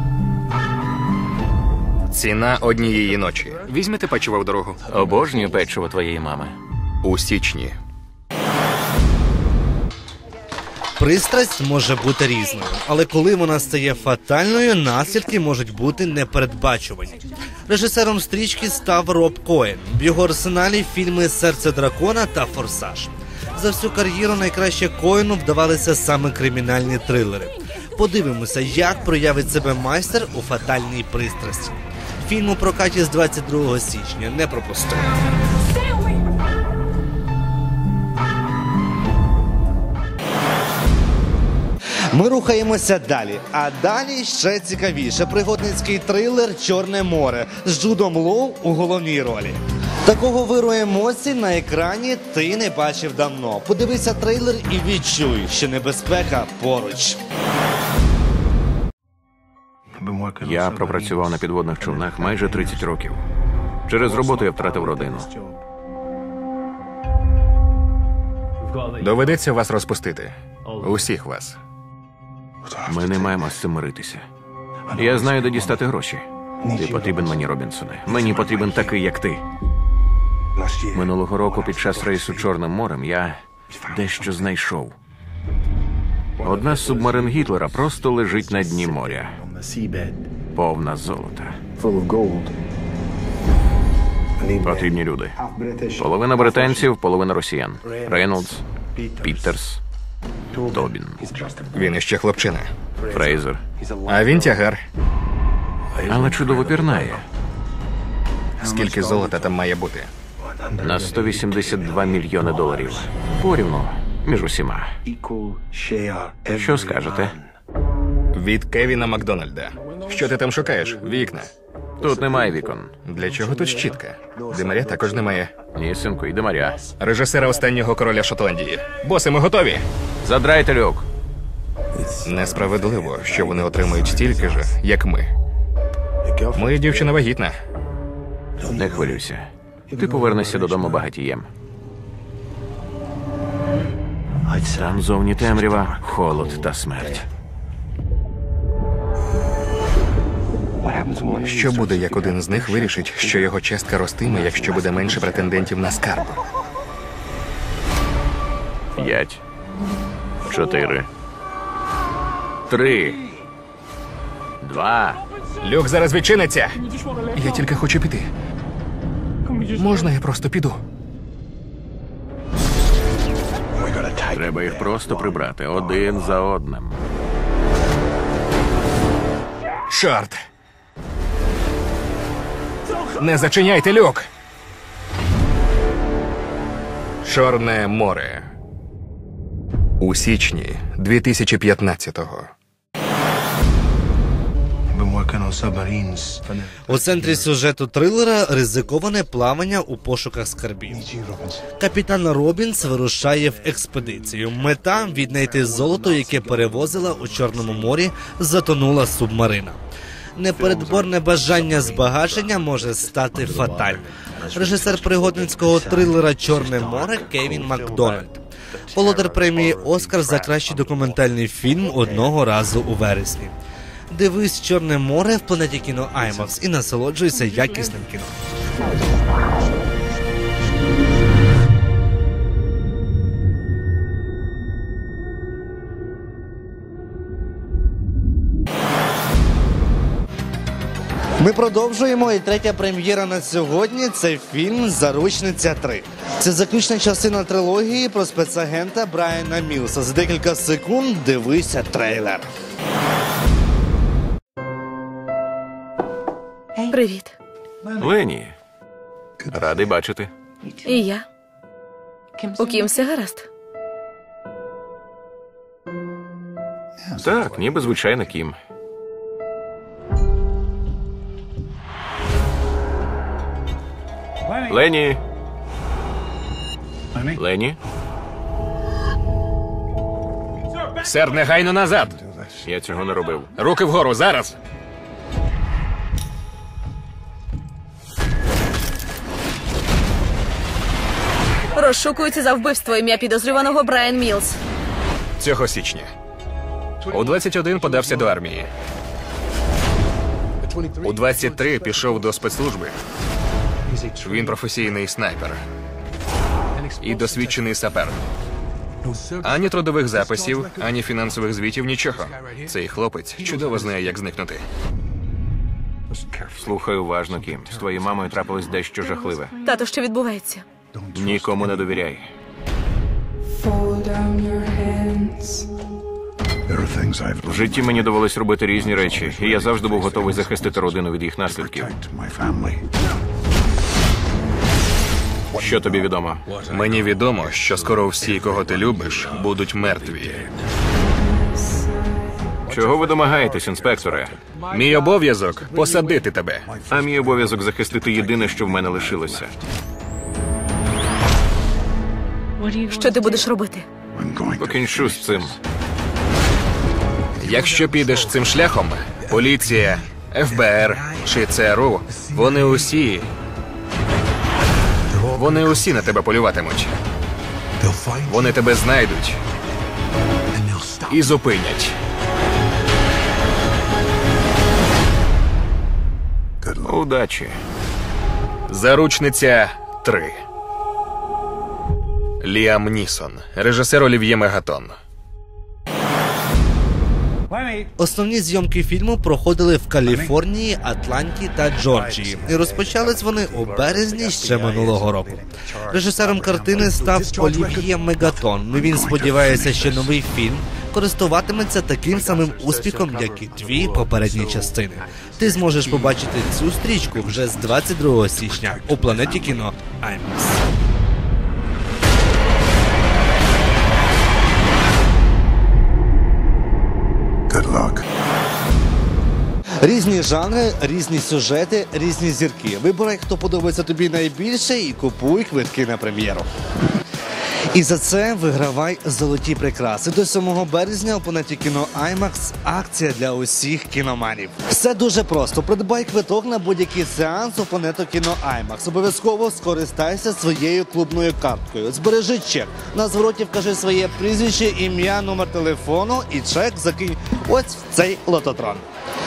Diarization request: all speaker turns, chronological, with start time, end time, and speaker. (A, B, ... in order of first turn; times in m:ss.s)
0:02.1-0:04.8 A
0:04.9-0:06.6 B
0:07.0-0:07.8 A
0:11.0-0:35.1 C
0:42.1-0:57.2 C
1:00.0-1:01.3 D
1:00.4-1:03.2 B
1:01.9-1:02.9 D
1:03.9-1:05.3 B
1:04.2-1:05.6 D
1:08.9-1:11.6 A
1:12.7-1:13.4 D
1:12.9-1:14.2 B
1:14.9-1:15.7 D
1:15.0-1:19.4 B
1:16.7-1:17.3 D
1:18.1-1:18.9 D
1:20.6-1:21.0 D
1:20.9-1:25.0 B
1:21.7-1:22.3 D
1:26.4-1:29.4 B
1:26.4-1:27.6 D
1:28.7-1:30.2 D
1:30.6-1:31.6 B
1:31.8-1:32.6 D
1:34.4-1:34.9 D
1:34.6-1:35.4 B
1:35.5-1:36.0 D
1:36.0-1:38.6 B
1:39.0-1:39.3 D
1:39.2-1:39.8 B
1:40.6-1:41.7 D
1:40.6-1:41.2 B
1:41.7-1:42.7 A
1:43.1-1:43.6 B
1:43.8-1:44.5 D
1:44.1-1:44.8 A
1:46.0-1:47.2 D
1:46.1-1:47.2 B
1:48.6-1:50.1 A
1:48.7-1:49.5 D
1:50.5-1:52.9 D
1:50.8-1:54.9 B
1:55.1-1:57.4 D
1:56.5-1:57.4 B
1:58.3-2:01.5 A
2:02.0-2:03.0 B
2:03.0-2:05.5 A
2:04.5-2:05.1 D
2:05.8-2:06.9 B
2:07.0-2:09.9 A
2:10.2-2:11.1 B
2:12.2-2:15.3 A
2:13.4-2:14.4 D
2:16.2-2:16.9 D
2:16.6-2:17.6 A
2:18.7-2:21.5 B
2:20.0-2:21.0 D
2:24.6-2:27.3 B
2:30.8-2:33.4 D
2:31.4-2:36.4 A
2:34.4-2:35.6 D
2:39.0-2:39.4 B
2:40.4-2:41.1 B
2:42.7-2:43.2 B
2:44.6-2:45.2 B
2:45.6-2:46.8 A
2:47.3-2:48.3 A
2:49.6-2:50.8 A
2:53.8-2:55.4 D
2:54.3-2:57.0 B
2:59.9-3:00.4 A
3:03.1-3:04.3 A
3:07.2-3:08.5 A
3:10.0-3:12.5 A
3:14.9-3:16.8 D
3:16.9-3:21.0 C
3:21.1-3:21.6 D
3:21.8-3:29.8 C
3:30.4-3:43.6 C
3:37.6-3:38.1 D
3:39.0-3:39.4 D
3:40.1-3:40.6 D
3:44.1-3:48.4 C
4:01.4-4:12.5 C
4:16.8-4:17.3 E
4:18.0-4:18.6 B
4:19.5-4:20.3 B
4:20.8-4:21.3 E
4:22.4-4:23.5 E
4:27.2-4:28.6 B
4:34.6-4:35.2 B
4:37.3-4:37.8 B
4:41.0-4:42.2 A
4:42.6-4:43.5 B
4:43.6-4:44.6 A
4:51.8-4:54.6 E
4:55.4-4:56.1 A
4:57.1-4:58.7 A
5:01.0-5:03.0 A
5:04.2-5:05.6 A
5:07.0-5:08.2 A
5:09.4-5:14.6 A
5:16.6-5:19.6 B
5:19.6-5:20.6 E
5:21.1-5:22.3 B
5:21.2-5:21.5 D
5:26.7-5:28.1 D
5:27.4-5:32.0 B
5:29.1-5:30.6 D
5:31.6-5:32.9 D
5:35.5-5:36.6 B
5:36.7-5:40.5 A
5:39.9-5:40.1 B
5:42.7-5:44.4 B
5:44.7-5:46.7 A
5:46.9-5:49.6 B
5:48.3-5:49.4 D
5:52.7-5:53.9 E
5:54.2-5:55.2 D
5:54.6-5:55.6 B
5:57.4-6:03.3 A
6:05.3-6:06.9 A
6:07.9-6:08.2 D
6:08.2-6:09.4 A
6:11.1-6:12.0 A
6:16.6-6:16.9 D
6:16.8-6:17.6 B
6:18.7-6:20.4 A
6:22.4-6:25.0 A
6:28.0-6:50.6 C
6:38.8-6:40.0 D
6:48.9-6:49.2 D
6:57.5-6:58.0 D
6:59.8-7:06.4 C
7:07.7-7:28.9 C